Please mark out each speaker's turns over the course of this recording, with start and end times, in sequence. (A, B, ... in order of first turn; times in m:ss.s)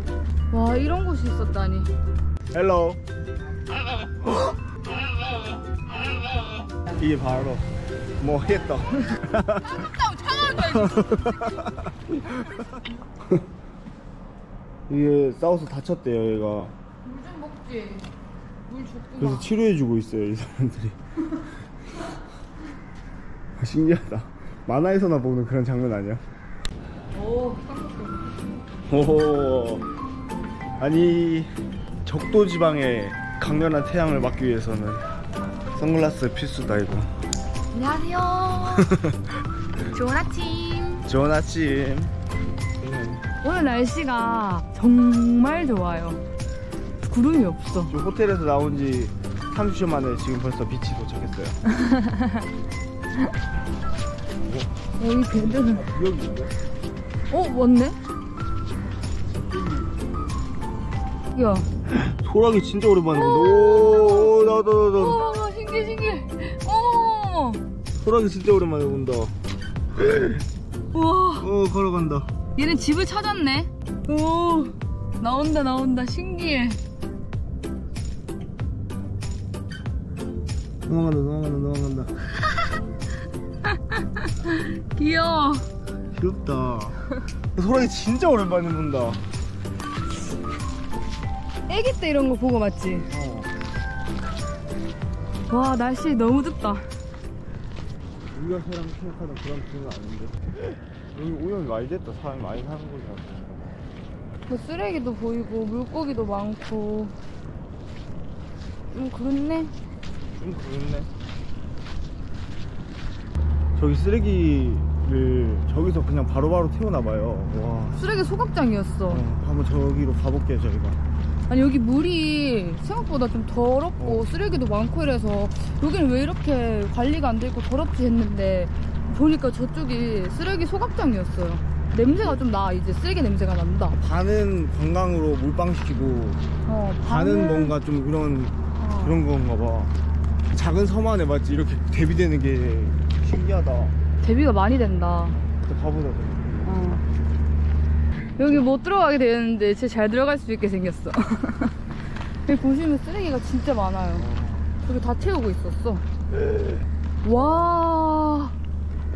0:00.5-0:01.9 A
0:02.5-0:03.0 B
0:06.9-0:07.7 B
0:08.2-0:09.8 B
0:09.6-0:11.7 A
0:10.5-0:13.4 B
0:14.9-0:16.7 B
0:17.0-0:18.1 A
0:18.7-0:19.5 A
0:19.2-0:21.0 B
0:23.6-0:26.2 B
0:27.1-0:28.3 A
0:28.9-0:29.8 B
0:30.8-0:31.5 B
0:32.0-0:35.0 B
0:35.7-0:37.1 B
0:37.7-0:38.9 A
0:38.6-0:39.3 B
0:39.9-0:41.0 A
0:41.0-0:42.1 B
0:42.8-0:43.2 B
0:43.4-0:46.2 A
0:47.0-0:47.9 A
0:47.9-0:51.6 B
0:51.7-0:52.4 A
0:54.4-0:54.7 B
0:55.0-0:55.8 A
0:55.3-0:56.5 B
0:57.3-0:58.0 A
0:59.3-0:59.9 B
1:01.3-1:01.7 A
1:01.9-1:05.2 B
1:03.1-1:04.4 A
1:04.9-1:07.6 A
1:08.0-1:09.3 B
1:10.0-1:10.4 B
1:10.9-1:11.5 A
1:11.4-1:12.3 B
1:12.6-1:16.8 A
1:20.8-1:22.2 B
1:23.6-1:25.6 A
1:26.1-1:29.2 B
1:31.7-1:33.1 A
1:33.1-1:33.5 B
1:35.5-1:36.8 A
1:38.3-1:40.5 B
1:41.1-1:43.8 B
1:44.4-1:47.1 A
1:48.9-1:49.7 A
1:50.4-1:51.1 B
1:53.8-1:58.0 B
1:58.0-1:59.2 A
1:59.1-2:01.0 B
2:01.5-2:14.0 A
2:04.0-2:04.2 B
2:12.0-2:12.5 B
2:14.0-2:16.4 B
2:16.6-2:17.7 A
2:17.0-2:19.9 B
2:18.8-2:19.2 A
2:20.5-2:23.9 B
2:24.2-2:25.4 A
2:25.4-2:27.0 B
2:26.6-2:27.0 A
2:28.4-2:31.8 A
2:32.4-2:34.3 A
2:34.2-2:34.8 B
2:34.8-2:36.0 A
2:37.2-2:38.5 A